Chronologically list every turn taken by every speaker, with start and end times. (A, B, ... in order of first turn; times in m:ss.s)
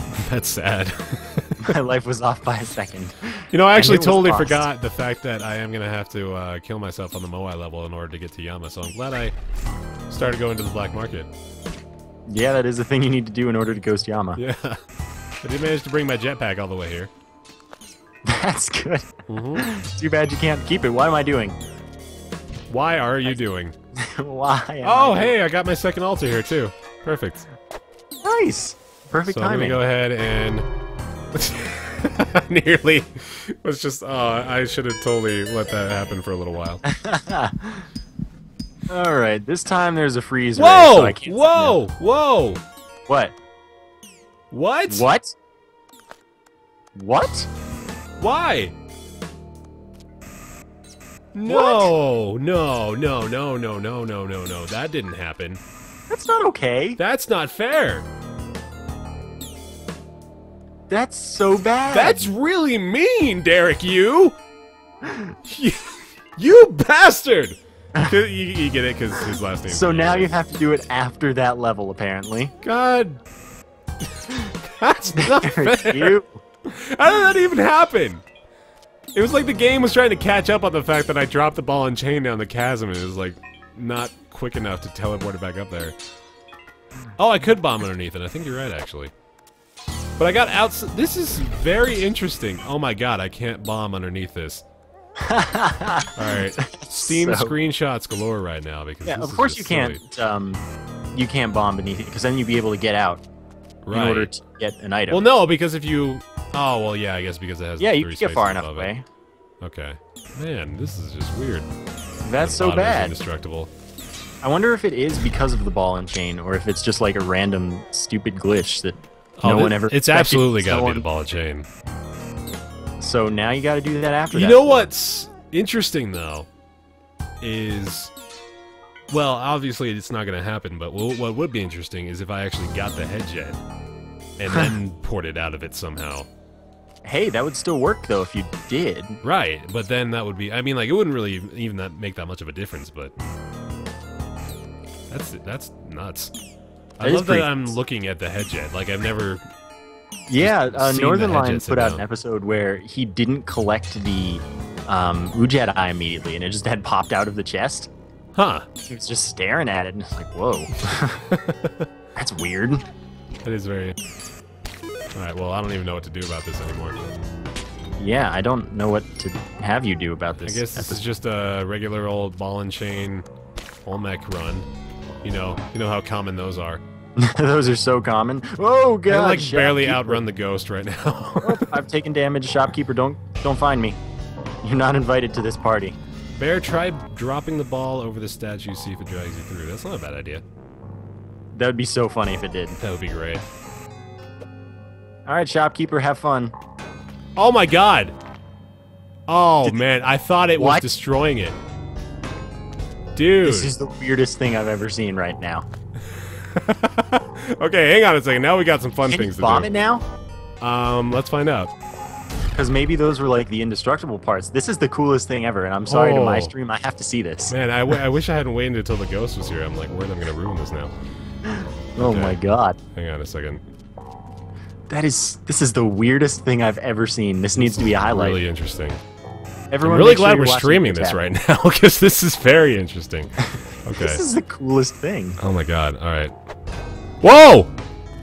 0:00.2-0:01.7 A
0:01.6-0:04.7 B
0:03.5-0:09.3 A
0:10.1-0:11.3 A
0:12.3-0:14.4 B
0:14.4-0:14.8 A
0:15.4-0:17.1 A
0:18.3-0:21.6 B
0:19.3-0:19.7 A
0:22.7-0:23.8 A
0:24.0-0:25.4 B
0:24.8-0:27.5 A
0:28.2-0:29.8 B
0:29.3-0:30.7 A
0:31.3-0:36.8 A
0:36.9-0:37.9 B
0:38.9-0:41.8 B
0:40.6-0:42.6 A
0:43.1-0:43.4 B
0:44.5-0:45.1 A
0:44.9-0:45.3 B
0:47.0-0:47.5 B
0:48.2-0:48.8 A
0:51.3-0:55.6 A
0:51.5-0:51.9 B
0:56.1-0:57.0 B
0:57.0-0:58.1 A
1:00.9-1:02.3 B
1:01.9-1:04.4 A
1:05.1-1:05.3 B
1:05.5-1:10.4 A
1:09.7-1:12.6 B
1:12.6-1:13.2 A
1:14.3-1:18.2 A
1:15.2-1:16.4 B
1:19.2-1:26.0 A
1:27.2-1:29.1 A
1:30.2-1:34.6 A
1:35.2-1:37.5 B
1:36.2-1:40.0 A
1:39.0-1:43.2 B
1:43.9-1:44.3 A
1:43.9-1:45.2 B
1:45.1-1:48.9 A
1:47.8-1:49.0 B
1:49.6-1:51.7 A
1:52.2-1:53.2 B
1:52.4-1:53.7 A
1:54.4-2:01.1 B
1:59.4-2:01.7 A
2:03.0-2:04.9 B
2:04.3-2:06.5 A
2:07.4-2:08.1 A
2:09.1-2:13.6 A
2:14.4-2:16.3 A
2:17.0-2:19.2 B
2:19.2-2:23.2 A
2:25.1-2:26.3 A
2:27.0-2:29.4 A
2:27.0-2:27.7 B
2:30.3-2:37.9 B
2:30.4-2:32.0 A
2:38.4-2:38.7 A
2:38.9-2:41.2 B
2:41.3-2:41.9 A
2:42.2-2:42.8 B
2:43.4-2:44.0 A
2:45.2-2:47.0 A
2:48.0-2:51.0 B
2:50.4-2:53.3 A
2:53.8-2:54.7 A
2:55.2-2:56.8 A
2:57.2-3:00.2 B
2:59.1-3:01.7 A
3:01.4-3:04.0 B
3:04.6-3:06.0 B
3:06.4-3:10.4 A
3:11.5-3:12.8 B
3:12.8-3:13.4 A
3:15.3-3:16.6 B
3:17.4-3:18.1 A
3:19.3-3:21.6 A
3:20.6-3:20.9 B
3:23.2-3:23.7 A
3:23.4-3:25.7 B
3:26.2-3:29.7 A
3:29.1-3:30.0 B
3:30.6-3:31.7 A
3:32.5-3:37.6 B
3:35.9-3:36.5 A
3:37.5-3:40.9 A
3:41.5-3:42.8 B
3:42.0-3:42.4 A
3:43.0-3:43.6 A
3:44.9-3:48.4 B
3:47.6-3:49.0 A
3:49.7-3:51.2 B
3:49.8-3:53.3 A
3:53.8-3:54.2 A
3:54.0-3:55.4 B
3:55.4-3:56.3 A
3:57.2-3:57.7 A